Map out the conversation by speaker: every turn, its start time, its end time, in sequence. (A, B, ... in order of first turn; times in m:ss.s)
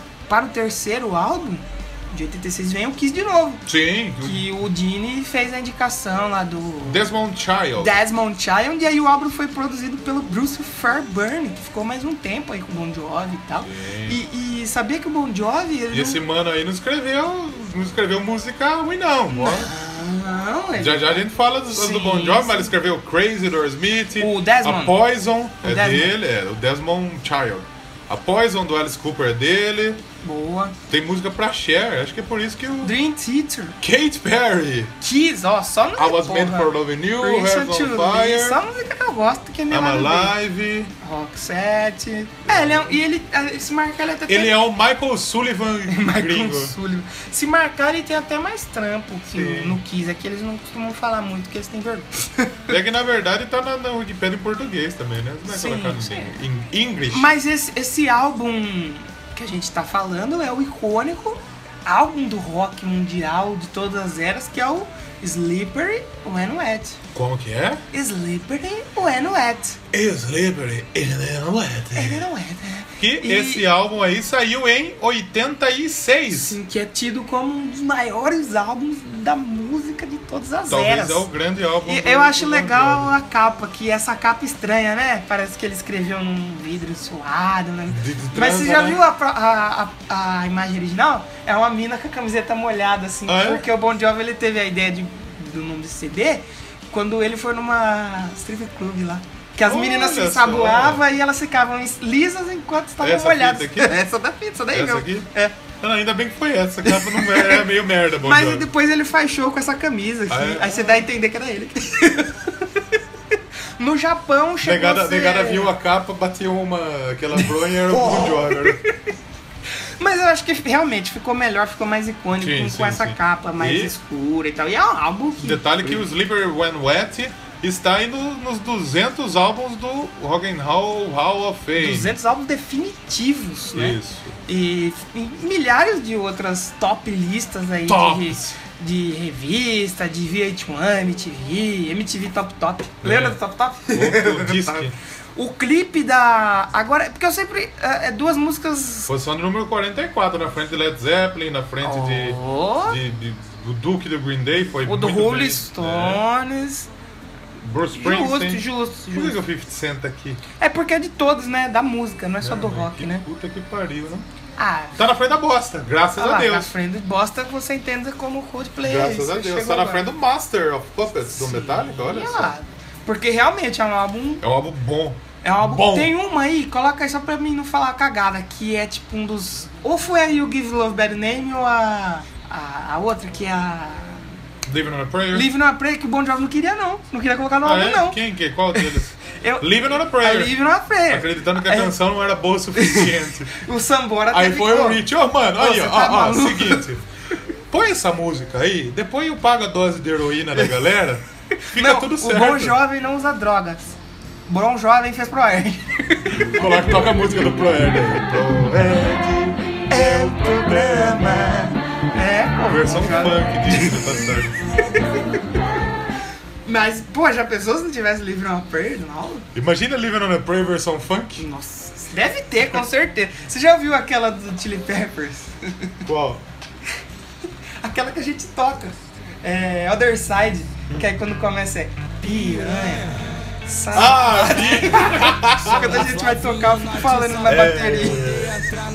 0:00.3-0:03.6 A
0:03.6-0:04.5 B
0:04.2-0:07.1 A
0:06.8-0:08.0 B
0:07.8-0:16.2 A
0:13.6-0:14.2 B
0:15.9-0:19.7 B
0:19.3-0:22.7 A
0:20.8-0:30.0 B
0:24.2-0:25.0 A
0:25.6-0:26.1 A
0:30.2-0:30.7 A
0:30.9-0:32.9 B
0:32.8-0:33.8 A
0:33.8-0:34.9 B
0:35.0-0:40.3 A
0:36.0-0:38.6 B
0:39.7-0:40.9 B
0:41.0-0:44.6 A
0:42.5-0:42.9 B
0:44.3-0:46.8 B
0:45.9-0:52.7 A
0:49.3-0:49.8 B
0:52.7-0:57.3 B
0:55.5-0:56.4 A
0:57.1-1:07.0 A
1:07.1-1:07.8 B
1:07.9-1:09.8 A
1:09.9-1:12.3 B
1:11.9-1:13.6 A
1:13.0-1:16.6 B
1:16.3-1:21.2 A
1:20.7-1:23.1 B
1:21.8-1:45.6 A
1:27.9-1:29.0 B
1:33.3-1:33.6 B
1:39.6-1:41.0 B
1:43.0-1:44.0 B
1:44.7-1:45.3 B
1:45.8-1:48.7 B
1:46.8-1:47.6 A
1:48.2-1:52.6 A
1:50.3-1:51.0 B
1:53.8-1:55.7 A
1:54.6-1:58.8 B
1:57.9-1:59.1 A
2:00.0-2:06.0 A
2:02.4-2:03.9 B
2:05.4-2:12.2 B
2:11.8-2:24.8 A
2:13.7-2:14.4 B
2:17.8-2:18.6 B
2:23.0-2:23.4 B
2:23.9-2:25.0 B
2:25.4-2:29.1 A
2:29.1-2:36.2 B
2:31.8-2:33.0 A
2:34.8-2:36.9 A
2:37.6-2:40.4 B
2:37.9-2:39.4 A
2:40.6-2:43.2 A
2:42.4-2:44.3 B
2:44.6-2:45.0 A
2:45.0-2:46.7 B
2:46.2-2:50.0 A
2:48.8-2:52.5 B
2:51.3-2:54.4 A
2:54.4-2:56.1 B
2:55.4-3:04.2 A
3:04.6-3:05.5 B
3:05.3-3:08.2 A
3:07.6-3:10.5 B
3:08.7-3:12.0 A
3:11.1-3:13.6 B
3:12.7-3:16.8 A
3:14.3-3:17.0 B
3:17.7-3:22.8 B
3:21.7-3:27.0 A
3:26.3-3:31.6 B
3:29.9-3:34.2 A
3:32.7-3:34.7 B
3:36.6-3:39.4 A
3:39.5-3:41.4 B
3:41.4-3:45.9 A
3:46.0-3:46.4 B
3:47.8-3:53.1 A
3:53.6-3:58.4 A
3:53.9-3:56.1 B
3:57.4-3:58.7 B